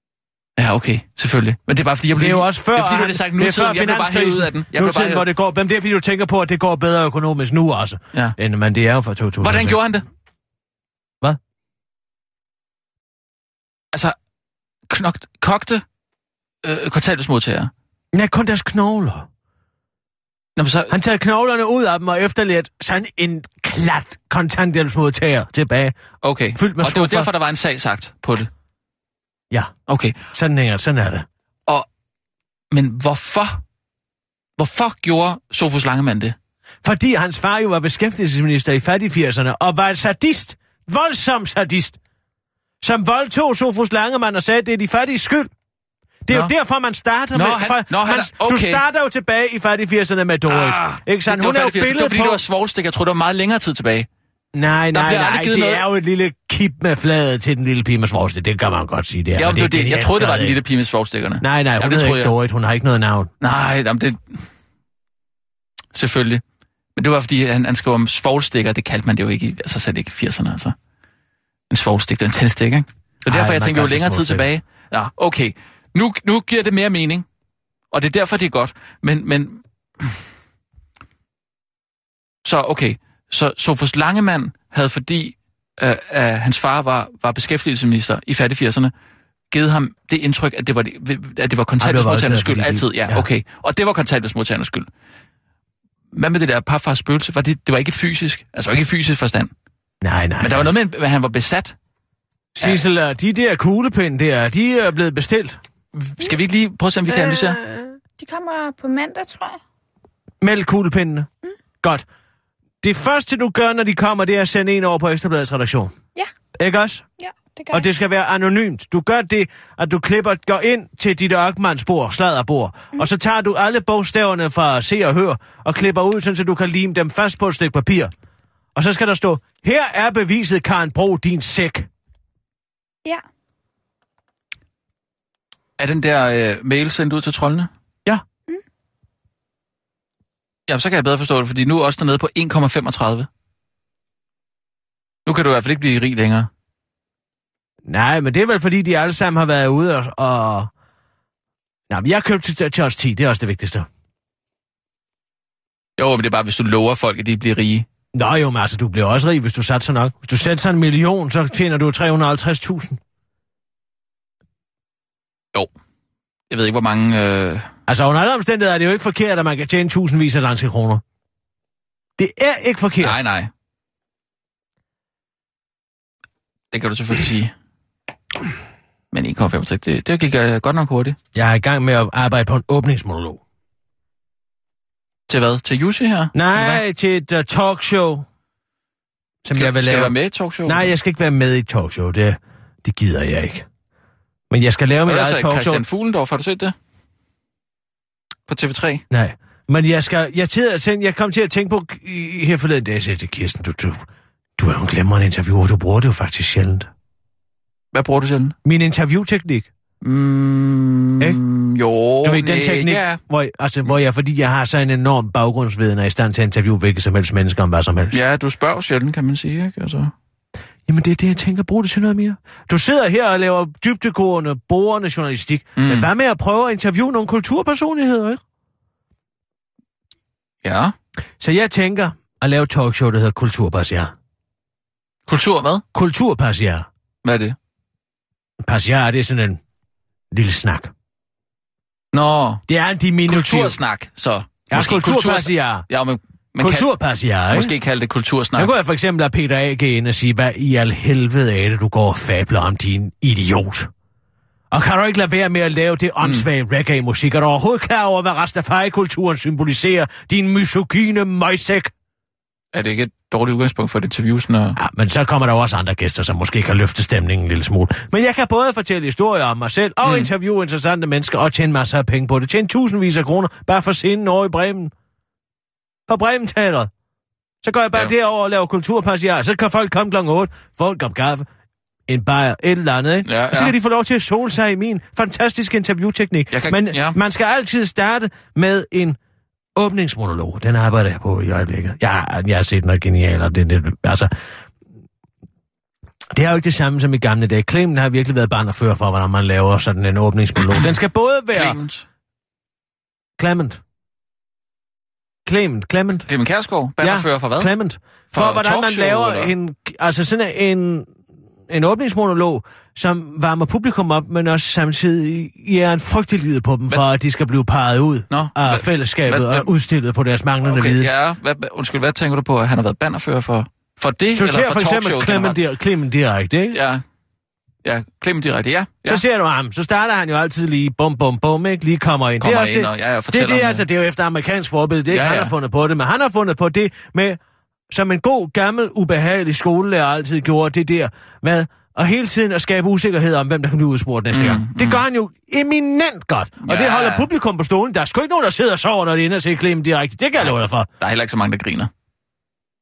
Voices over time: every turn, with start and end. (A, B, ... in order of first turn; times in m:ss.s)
0:00.6-0:05.2 A
0:02.1-0:09.8 B
0:09.4-0:10.0 A
0:14.9-0:15.8 A
0:16.6-0:17.7 A
0:18.1-0:19.3 B
0:20.6-0:20.9 A
0:20.9-0:26.0 B
0:26.2-0:28.5 A
0:26.5-0:27.3 B
0:29.9-0:30.2 A
0:30.3-0:31.2 B
0:32.7-0:33.6 A
0:34.6-0:36.4 A
0:36.8-0:42.0 B
0:42.8-0:45.5 B
0:46.2-0:52.4 B
0:47.3-0:48.8 A
0:50.5-0:54.1 A
0:54.5-1:00.6 B
0:54.9-0:55.8 A
0:59.4-1:02.3 A
1:01.4-1:03.3 B
1:03.4-1:04.4 A
1:05.9-1:06.4 A
1:07.0-1:10.7 A
1:11.7-1:17.2 A
1:13.2-1:14.5 B
1:17.9-1:20.2 A
1:22.4-1:28.9 A
1:29.5-1:34.9 A
1:31.8-1:33.2 B
1:36.1-1:39.5 A
1:40.0-1:40.7 B
1:40.4-1:41.8 A
1:42.5-1:45.6 B
1:45.9-1:47.6 A
1:47.1-1:47.9 B
1:48.2-1:49.6 C
1:50.4-1:51.3 B
1:52.8-1:55.9 B
1:56.6-1:57.0 B
1:57.2-1:57.8 C
1:57.7-2:08.1 B
2:08.7-2:11.9 B
2:15.8-2:17.7 A
2:20.7-2:23.3 A
2:25.2-2:26.5 A
2:27.9-2:30.7 B
2:31.9-2:33.9 B
2:36.0-2:37.8 A
2:38.1-2:43.0 B
2:46.5-2:47.7 A
2:47.9-2:51.0 B
2:52.2-2:53.2 B
2:53.0-2:53.5 A
2:56.7-2:57.5 A
2:59.1-3:01.2 A
3:01.3-3:03.4 B
3:05.3-3:06.8 A
3:06.3-3:08.2 B
3:09.4-3:10.1 B
3:09.5-3:10.9 A
3:10.6-3:13.6 B
3:14.5-3:15.8 B
3:15.0-3:16.7 A
3:18.5-3:19.0 A
3:19.1-3:24.0 B
3:24.6-3:26.9 B
3:27.9-3:28.5 A
3:28.6-3:29.7 B
3:30.0-3:33.2 A
3:32.2-3:38.2 B
3:38.1-3:40.1 A
3:40.9-3:48.4 B
3:45.8-3:46.1 A
3:50.6-3:50.9 A
3:51.4-3:54.1 B
3:55.3-3:55.8 A
3:55.9-3:56.9 B
3:57.2-3:57.6 A
3:58.6-3:59.6 B
4:00.3-4:00.9 B
4:02.1-4:02.6 A
4:02.7-4:03.8 B
4:03.3-4:06.9 A
4:04.7-4:05.8 B
4:06.6-4:07.7 B
4:07.5-4:08.7 A
4:08.5-4:13.9 B
4:14.7-4:21.9 B
4:16.2-4:16.5 A
4:22.7-4:24.8 A
4:24.8-4:34.9 B
4:30.0-4:30.3 A
4:36.1-4:36.9 B
4:37.6-4:41.4 B
4:42.1-4:49.2 B
4:43.2-4:43.7 A
4:46.5-4:47.2 A
4:49.8-4:54.3 B
4:56.3-5:01.8 B
5:01.5-5:02.0 A
5:03.4-5:03.8 B
5:05.4-5:06.3 B
5:06.3-5:07.7 A
5:07.0-5:11.1 B
5:08.3-5:09.5 A
5:11.7-5:21.1 B
5:18.3-5:19.7 A
5:20.6-5:25.6 A
5:24.3-5:26.8 B
5:26.7-5:27.0 A
5:27.8-5:29.2 A
5:29.0-5:37.4 B
5:32.4-5:33.8 A
5:35.1-5:35.5 A
5:37.9-5:50.9 B
5:44.3-5:45.0 A
5:46.6-5:47.3 A
5:50.4-5:51.9 A